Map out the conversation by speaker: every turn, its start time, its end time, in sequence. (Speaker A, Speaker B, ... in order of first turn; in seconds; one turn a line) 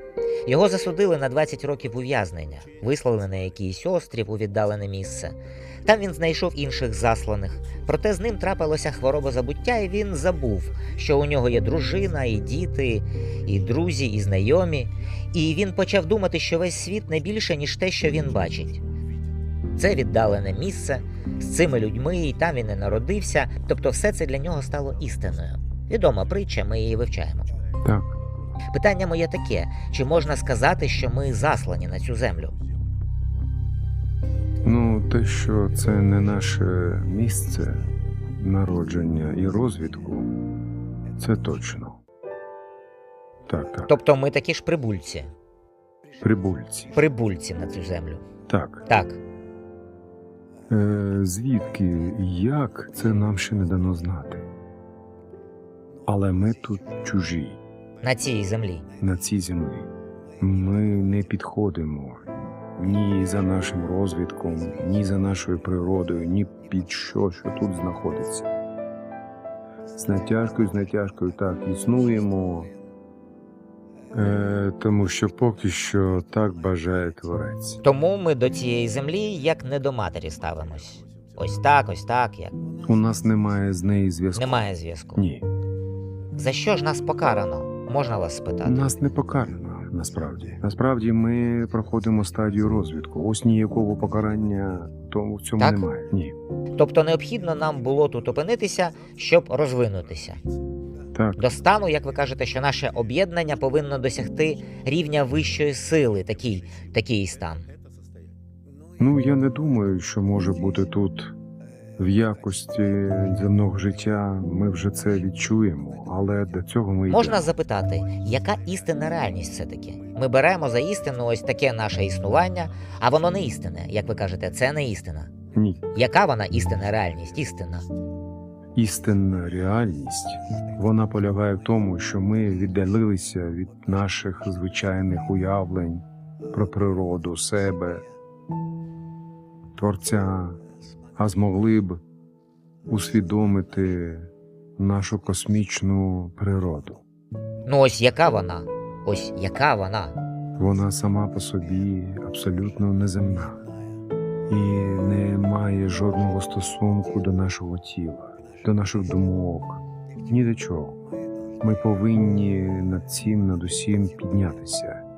Speaker A: 0.5-18.8
Speaker A: 19.8-27.6
Speaker B: 27.8-28.1
Speaker A: 28.7-32.5
Speaker B: 34.6-37.9
Speaker B: 38.4-40.3
Speaker B: 41.2-42.0
Speaker B: 43.5-43.9
Speaker A: 43.9-45.3
Speaker B: 46.2-46.9
Speaker A: 46.9-48.2
Speaker B: 48.5-48.9
Speaker A: 48.9-49.2
Speaker B: 50.7-54.5
Speaker B: 56.0-57.6
Speaker A: 58.0-58.8
Speaker B: 59.0-68.5
Speaker B: 69.9-72.7
Speaker B: 74.1-77.8
Speaker A: 77.8-82.5
Speaker B: 82.8-85.5
Speaker A: 84.3-85.2
Speaker A: 86.3-89.0
Speaker B: 88.6-96.3
Speaker A: 95.6-95.8
Speaker A: 96.8-100.4
Speaker B: 101.1-101.4
Speaker A: 101.4-107.7
Speaker B: 109.0-111.3
Speaker B: 112.0-117.5
Speaker A: 117.1-125.3
Speaker B: 125.5-125.8
Speaker A: 125.9-127.8
Speaker B: 128.8-138.0
Speaker B: 139.8-140.6
Speaker B: 141.2-142.0
Speaker B: 142.9-147.0
Speaker A: 147.7-150.2
Speaker B: 150.6-153.6
Speaker B: 154.5-161.0
Speaker B: 161.6-165.0